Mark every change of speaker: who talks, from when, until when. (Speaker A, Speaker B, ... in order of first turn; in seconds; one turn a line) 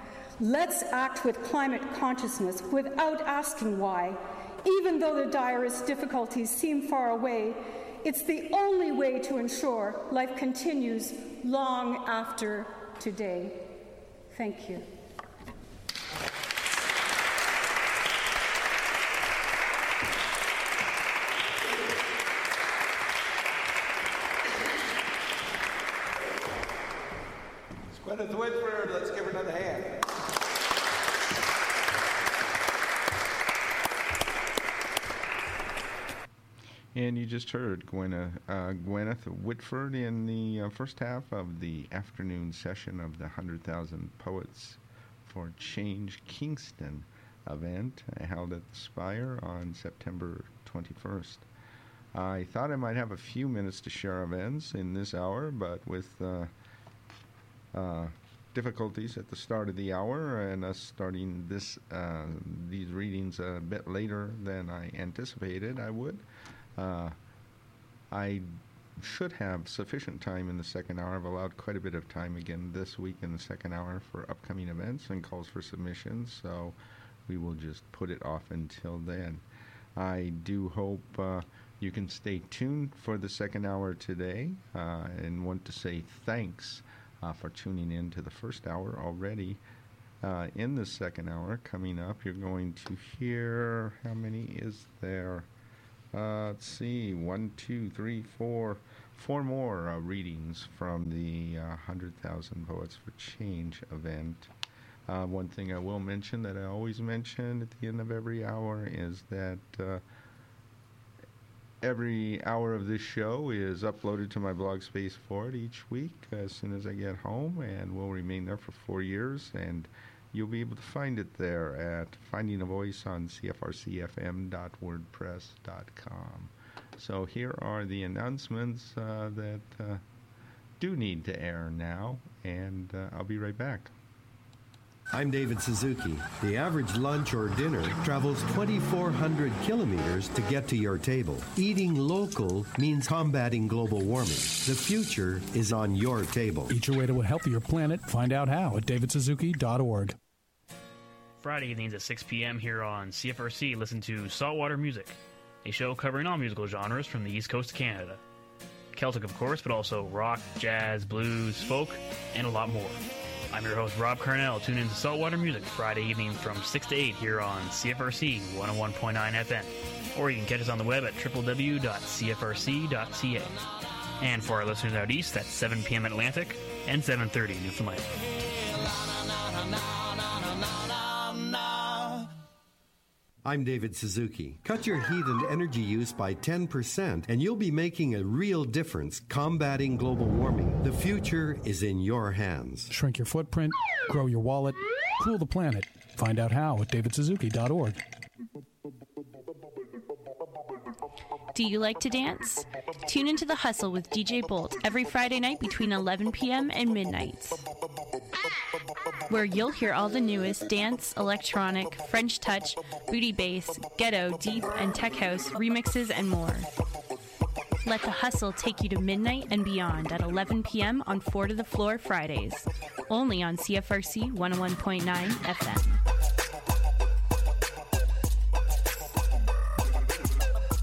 Speaker A: 0.4-13.7
Speaker A: 14.3-14.8
Speaker B: 27.9-30.0
Speaker C: 36.9-51.5
Speaker C: 52.1-56.5
Speaker C: 57.7-66.2
Speaker C: 66.8-67.1
Speaker C: 68.1-76.8
Speaker C: 77.3-79.4
Speaker C: 80.0-89.6
Speaker C: 90.2-95.5
Speaker C: 96.1-104.5
Speaker C: 105.1-110.0
Speaker C: 111.8-130.0
Speaker C: 130.8-133.9
Speaker D: 135.1-146.8
Speaker E: 146.7-150.2
Speaker F: 151.4-158.2
Speaker F: 158.9-163.0
Speaker F: 163.5-173.6
Speaker F: 174.2-178.1
Speaker D: 183.4-192.9
Speaker E: 192.9-198.0
Speaker G: 201.5-207.6
Speaker G: 209.3-216.7
Speaker G: 217.8-226.0